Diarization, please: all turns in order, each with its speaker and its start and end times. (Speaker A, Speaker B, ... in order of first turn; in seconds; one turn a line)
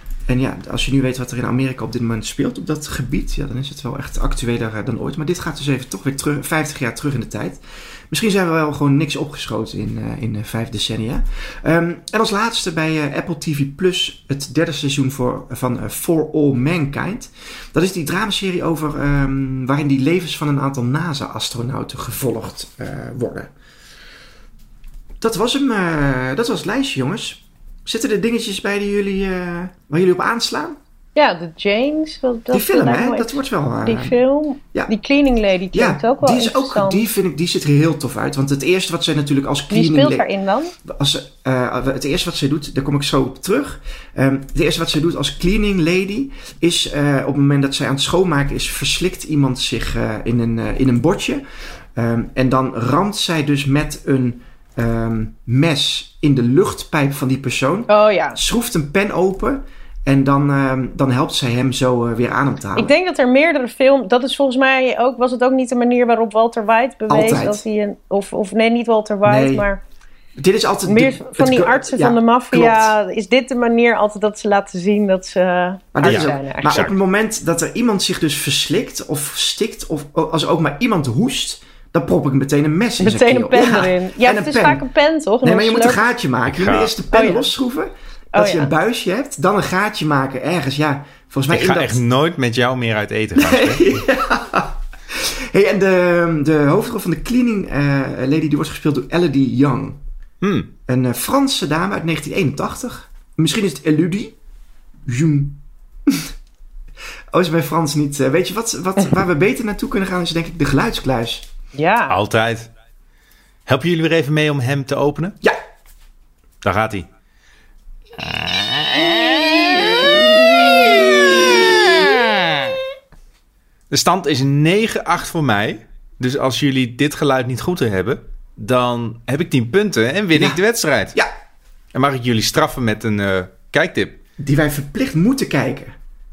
Speaker A: 0.3-23.5
Speaker A: 25.2-30.8
Speaker B: 31.1-37.0
Speaker A: 32.5-34.2
Speaker A: 35.7-40.3
Speaker B: 39.7-40.7
Speaker A: 40.9-51.4
Speaker A: 51.9-62.9
Speaker B: 57.9-58.4
Speaker B: 62.8-69.8
Speaker A: 67.1-67.6
Speaker A: 69.2-69.7
Speaker A: 70.4-72.9
Speaker B: 70.9-76.9
Speaker A: 75.9-84.8
Speaker C: 76.0-76.9
Speaker B: 83.0-86.0
Speaker A: 85.4-92.0
Speaker C: 86.5-86.9
Speaker B: 87.1-87.5
Speaker B: 88.3-88.7
Speaker C: 91.5-94.0
Speaker A: 93.4-100.0
Speaker C: 100.4-100.7
Speaker A: 100.9-104.4
Speaker A: 105.0-106.3
Speaker A: 107.3-111.5
Speaker B: 111.8-112.2
Speaker C: 112.1-112.7
Speaker C: 113.7-115.4
Speaker C: 116.6-117.1
Speaker C: 118.2-122.7
Speaker C: 123.9-131.2
Speaker A: 130.3-130.6
Speaker C: 131.9-134.2
Speaker A: 134.4-135.9